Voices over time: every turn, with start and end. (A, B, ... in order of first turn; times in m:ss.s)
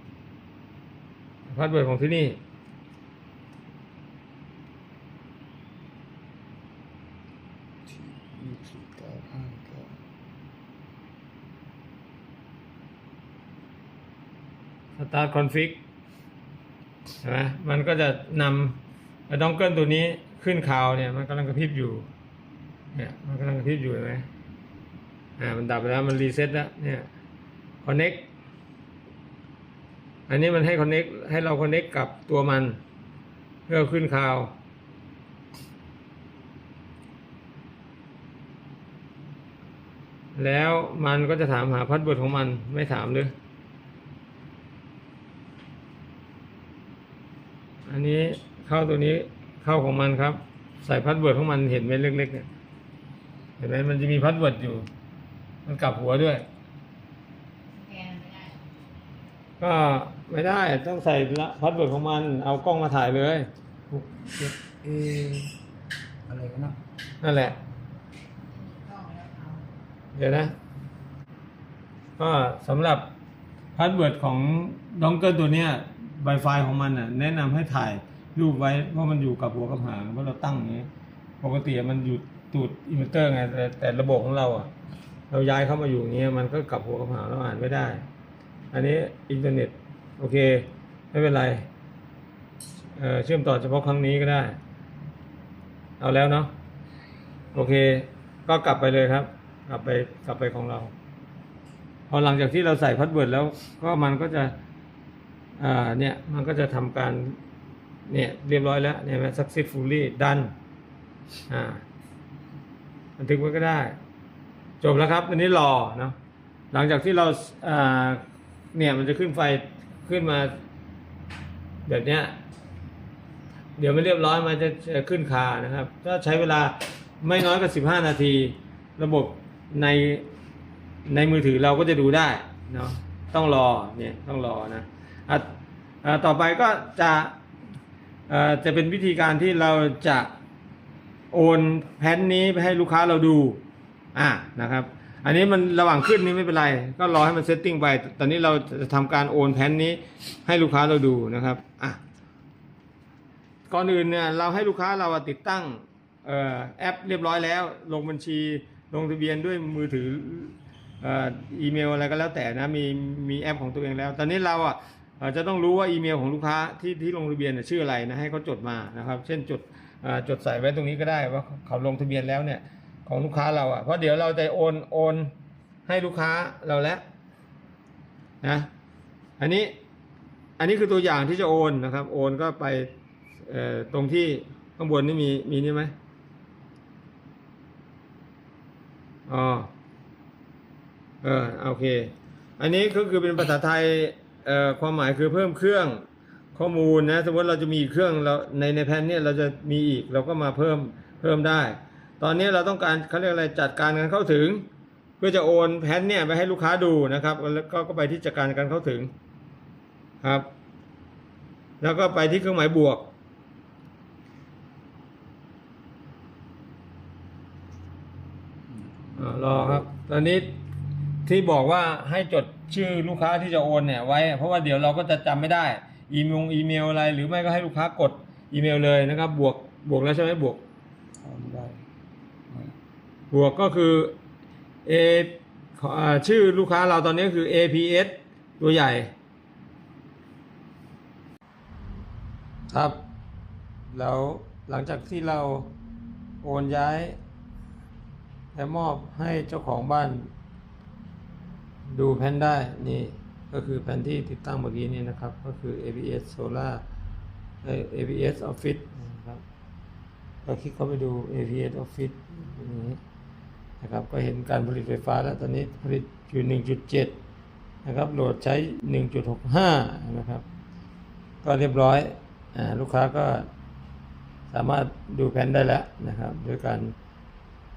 0:01.5-0:02.4 A
0:07.9-0:10.0 B
0:15.0-0:15.8 A
0:17.2-0:22.1 A
0:22.9-0:24.3 A
0:25.4-0:27.1 A
0:27.8-0:28.3 A
0:30.3-0:32.8 A
0:33.7-0:34.6 A
0:40.4-0:43.3 A
0:47.9-0:52.5 A
0:53.6-0:54.9 A
0:55.6-0:56.4 A
0:57.7-0:58.6 C
0:59.6-1:03.5 A
1:03.9-1:05.5 B
1:06.3-1:06.8 B
1:07.2-1:07.6 A
1:08.4-1:09.6 C
1:10.2-1:10.6 A
1:12.2-1:13.1 A
1:13.8-1:20.9 A
1:21.4-1:24.7 A
1:25.3-1:28.0 A
1:28.7-1:31.7 A
1:33.0-1:34.6 A
1:36.0-1:36.5 A
1:37.5-1:40.9 A
1:42.1-1:44.6 A
1:45.6-1:47.4 A
1:48.1-1:50.5 A
1:51.5-1:51.8 A
1:53.2-1:54.0 A
1:54.8-1:56.2 A
1:56.7-2:00.6 A
2:01.9-2:02.4 A
2:03.8-2:10.3 A
2:11.1-2:17.3 A
2:18.3-2:20.3 A
2:21.3-2:23.6 A
2:24.1-2:32.0 A
2:33.7-2:55.3 A
2:55.9-2:57.0 A
2:58.4-2:58.7 A
2:59.4-2:59.8 A
3:00.6-3:02.9 A
3:03.4-3:05.9 A
3:09.3-3:09.7 A
3:11.2-3:24.7 A
3:25.2-3:29.1 A
3:30.2-3:30.5 A
3:31.8-3:33.1 A
3:39.1-3:40.6 A
3:41.2-3:50.6 A
3:51.2-3:51.8 B
3:53.3-3:54.1 A
3:54.9-3:59.1 A
4:02.7-4:03.0 A
4:03.9-4:05.7 A
4:06.4-4:07.2 A
4:08.6-4:10.3 A
4:11.9-4:16.8 A
4:17.6-4:19.4 A
4:20.4-4:23.0 A
4:23.8-4:27.2 A
4:27.8-4:30.4 A
4:31.4-4:33.5 A
4:34.5-4:36.9 A